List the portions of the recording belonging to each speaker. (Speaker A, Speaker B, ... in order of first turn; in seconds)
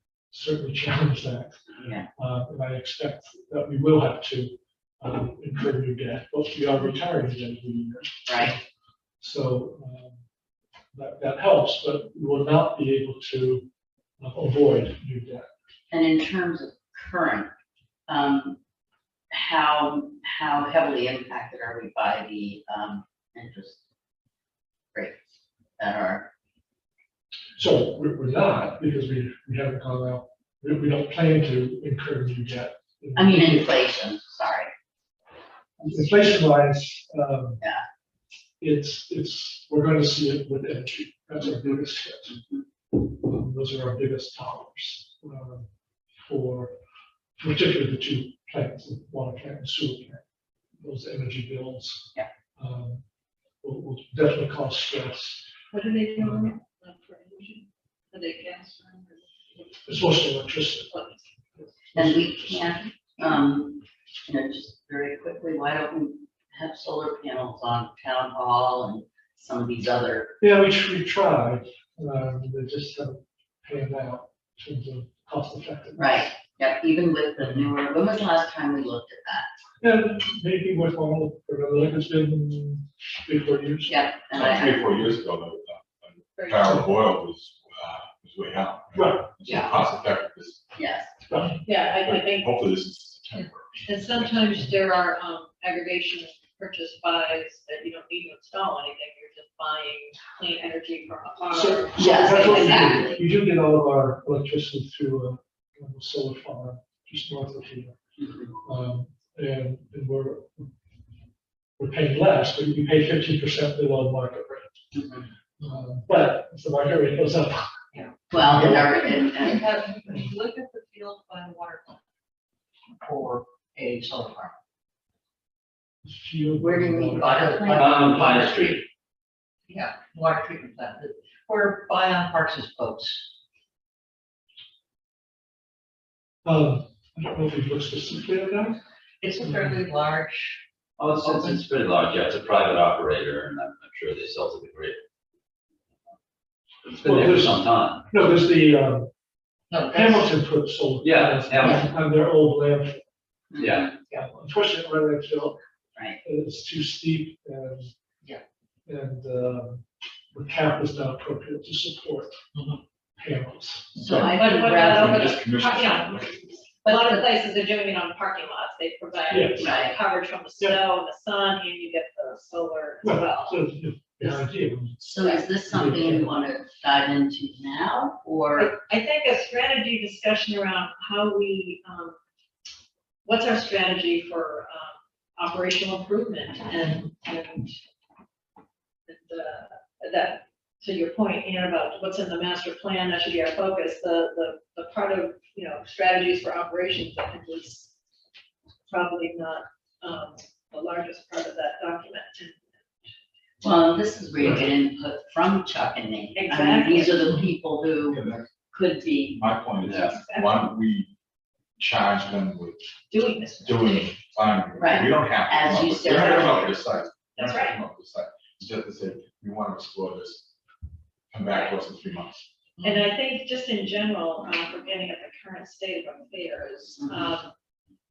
Speaker A: 0.3-8.6, 9.2-10.2, 10.9-13.7, 14.2-15.5, 27.6-33.8, 35.8-37.6, 38.6-42.4, 42.9-45.7, 46.2-46.7, 47.4-50.2, 50.8-53.0, 53.6-55.4, 56.2-56.5, 59.9-60.9, 61.9-62.2, 70.4-76.3, 77.4-77.7, 79.8-84.0, 88.9-89.3, 91.3-91.6, 101.5-108.0, 108.6-110.7, 111.8-114.7, 115.6-117.8, 118.3-118.8, 126.0-127.8, 136.4-138.8, 139.4-139.8, 147.0-149.1, 149.9-153.0, 154.1-155.6, 156.2-157.9, 158.8-162.4, 163.2-164.3, 169.3-169.8, 173.0-175.0, 175.6-176.4
Speaker B: 1.8-2.1, 8.3-8.5, 15.9-17.5, 18.1-18.6, 19.3-23.8, 24.9-25.2, 25.8-26.3, 33.1-34.7, 61.9-70.3, 76.0-79.5, 83.9-84.9, 89.4-89.8, 90.7-91.1, 102.0-103.2, 108.2-108.5, 114.9-115.3, 118.3-119.7, 126.6-128.0, 153.5-153.8, 164.0-165.4, 166.8-167.2, 169.6-170.0, 175.0-178.7, 203.6-209.4, 214.8-216.8
Speaker C: 55.7-59.8, 60.9-61.2, 86.4-86.8, 91.6-92.6, 93.8-103.0, 164.2-173.6, 178.6-182.2, 183.2-187.8, 189.1-197.9, 198.9-202.6, 206.3-207.4, 209.9-210.7, 213.1-214.1, 217.3-217.8, 221.5-221.8, 222.8-227.5
Speaker D: 84.3-90.6, 91.7-94.4, 164.8-166.8, 208.1-208.5, 209.4-211.1, 211.8-212.8, 213.6-220.4, 221.3-222.4
Speaker E: 117.9-122.0, 123.0-124.5, 127.1-128.8, 129.7-133.2, 139.2-140.6, 141.2-141.6, 149.7-150.3
Speaker F: 127.7-128.8, 141.0-145.0, 146.8-148.0, 151.0-151.9, 153.6-153.9, 209.8-210.1